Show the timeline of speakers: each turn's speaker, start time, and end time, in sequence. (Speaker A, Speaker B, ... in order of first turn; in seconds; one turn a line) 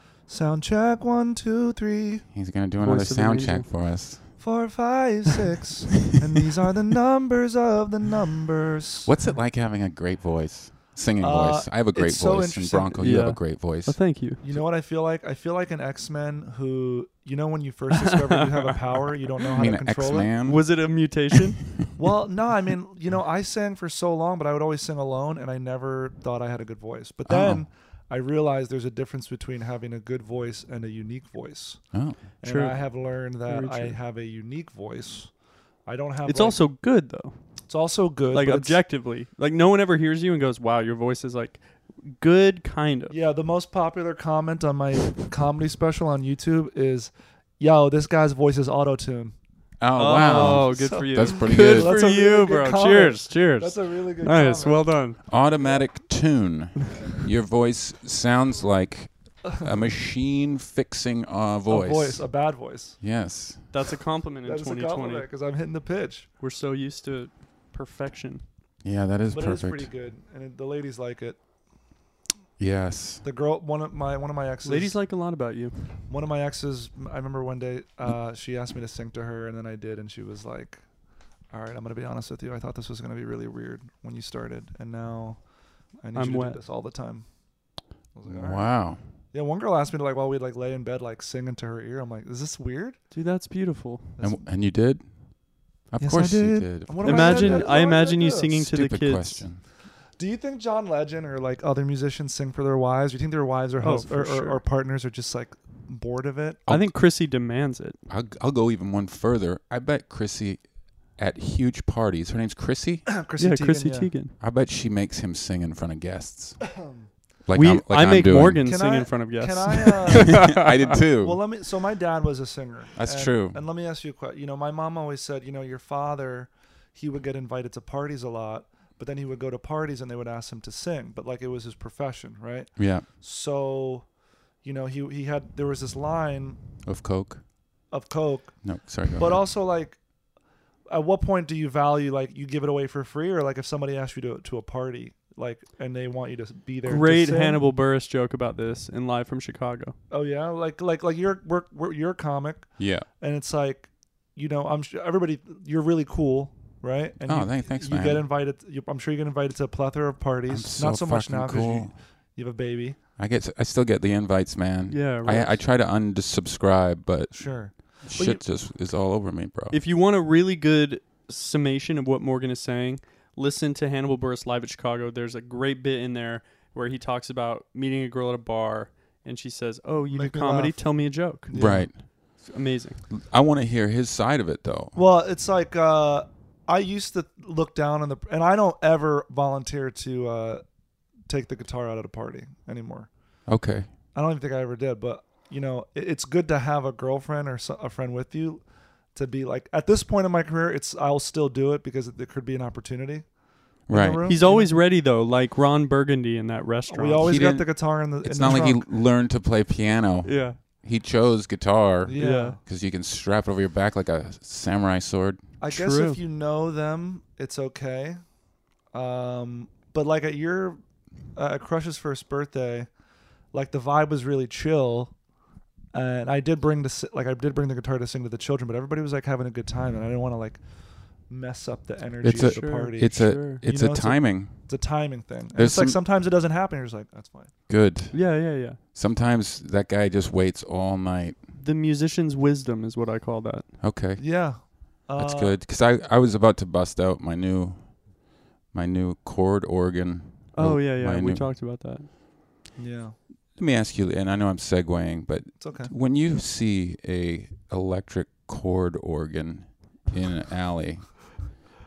Speaker A: 0.3-2.2
Speaker B: 2.3-4.3
Speaker C: 2.8-3.7
Speaker A: 4.4-9.2
Speaker B: 9.0-14.2
Speaker A: 11.2-13.1
Speaker C: 13.0-14.4
Speaker A: 14.4-20.3
Speaker C: 18.0-18.7
Speaker B: 19.5-20.8
Speaker C: 20.4-21.7
Speaker A: 21.9-35.3
Speaker B: 27.2-27.6
Speaker B: 31.9-32.2
Speaker C: 32.4-32.8
Speaker C: 33.5-34.0
Speaker A: 35.9-36.6
Speaker C: 36.2-37.4
Speaker A: 37.7-38.8
Speaker C: 38.3-43.1
Speaker A: 43.1-49.3
Speaker B: 49.8-51.9
Speaker C: 50.0-55.2
Speaker A: 50.3-54.9
Speaker B: 55.3-62.3
Speaker A: 59.5-59.7
Speaker A: 61.7-63.0
Speaker B: 63.0-63.7
Speaker C: 63.7-65.3
Speaker A: 64.4-66.3
Speaker C: 66.4-68.4
Speaker B: 68.8-69.9
Speaker A: 69.3-71.4
Speaker B: 72.6-73.2
Speaker A: 73.2-75.0
Speaker C: 74.6-76.0
Speaker A: 76.1-80.8
Speaker A: 81.5-85.4
Speaker A: 86.0-87.3
Speaker C: 86.1-86.6
Speaker A: 88.1-93.0
Speaker B: 88.3-89.0
Speaker C: 93.1-94.1
Speaker A: 94.2-94.4
Speaker B: 94.2-95.1
Speaker B: 95.9-97.8
Speaker A: 96.0-98.5
Speaker C: 97.0-99.5
Speaker B: 98.5-99.6
Speaker A: 100.2-106.6
Speaker C: 103.8-104.6
Speaker B: 106.7-106.9
Speaker C: 106.7-108.0
Speaker B: 108.1-113.1
Speaker A: 113.1-114.1
Speaker C: 113.4-114.3
Speaker B: 114.4-116.7
Speaker A: 116.7-117.1
Speaker B: 117.4-118.7
Speaker C: 117.5-120.7
Speaker A: 118.6-134.1
Speaker B: 120.2-121.4
Speaker B: 123.0-123.6
Speaker B: 132.8-133.1
Speaker A: 134.6-136.6
Speaker B: 136.8-137.4
Speaker A: 137.9-140.0
Speaker B: 138.6-139.4
Speaker A: 140.9-147.6
Speaker C: 146.8-149.9
Speaker A: 150.1-163.0
Speaker B: 152.8-153.1
Speaker B: 157.2-158.2
Speaker B: 160.5-161.9
Speaker B: 163.2-169.8
Speaker C: 164.9-165.6
Speaker A: 167.3-168.4
Speaker C: 169.7-183.0
Speaker A: 180.1-181.9
Speaker B: 181.5-182.0
Speaker B: 183.1-185.0
Speaker A: 184.9-190.6
Speaker A: 191.2-193.1
Speaker B: 193.5-193.9
Speaker A: 194.1-203.3
Speaker A: 203.9-204.7
Speaker B: 203.9-204.2
Speaker C: 204.2-207.3
Speaker A: 206.9-208.8
Speaker B: 207.2-215.4
Speaker C: 210.2-210.6
Speaker A: 212.1-212.6
Speaker C: 212.2-212.6
Speaker A: 215.6-218.2
Speaker C: 215.7-216.2
Speaker A: 218.9-220.8
Speaker A: 221.3-222.9
Speaker A: 223.5-225.2
Speaker A: 225.9-230.7
Speaker A: 231.3-237.5
Speaker B: 232.2-234.7
Speaker C: 232.4-233.6
Speaker B: 235.5-236.0
Speaker B: 237.7-241.4
Speaker C: 238.1-238.8
Speaker C: 241.5-243.7
Speaker B: 243.8-248.1
Speaker A: 244.2-245.6
Speaker B: 248.7-251.5
Speaker C: 250.5-252.1
Speaker A: 252.8-253.2
Speaker B: 253.6-261.5
Speaker A: 255.6-255.9